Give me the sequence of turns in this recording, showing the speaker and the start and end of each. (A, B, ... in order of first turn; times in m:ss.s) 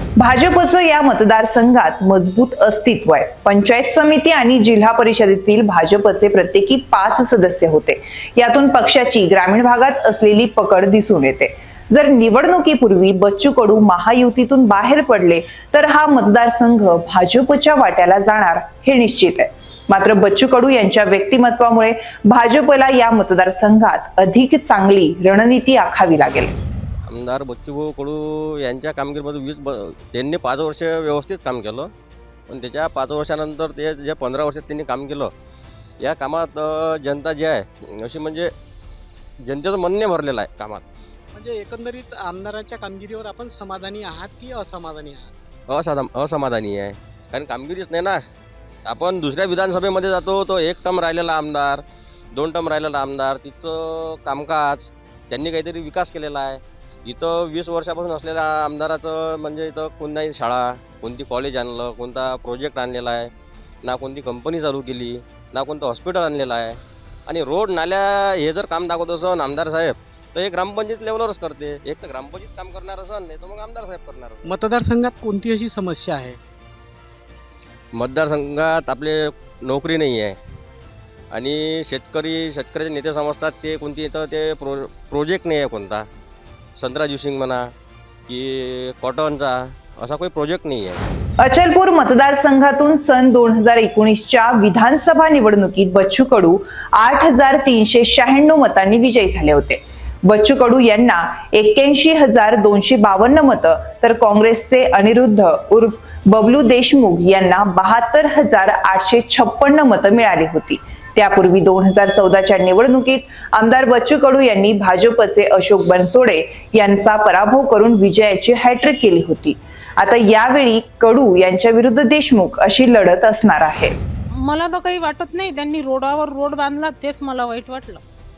0:00.2-0:26.5 A
0:27.1-0:31.9 B
0:32.5-0:35.3 B
0:36.0-0:38.5 B
0:39.4-0:40.8 B
0:41.3-0:45.3 C
0:45.7-0:48.2 B
0:48.9-0:51.8 B
0:52.3-1:03.3 B
1:03.8-1:14.5 B
1:14.4-1:16.4 C
1:17.9-1:20.4 B
1:21.3-1:26.0 B
1:26.8-1:27.6 B
1:28.3-1:31.0 B
1:31.4-2:04.0 A
2:04.4-2:08.0 D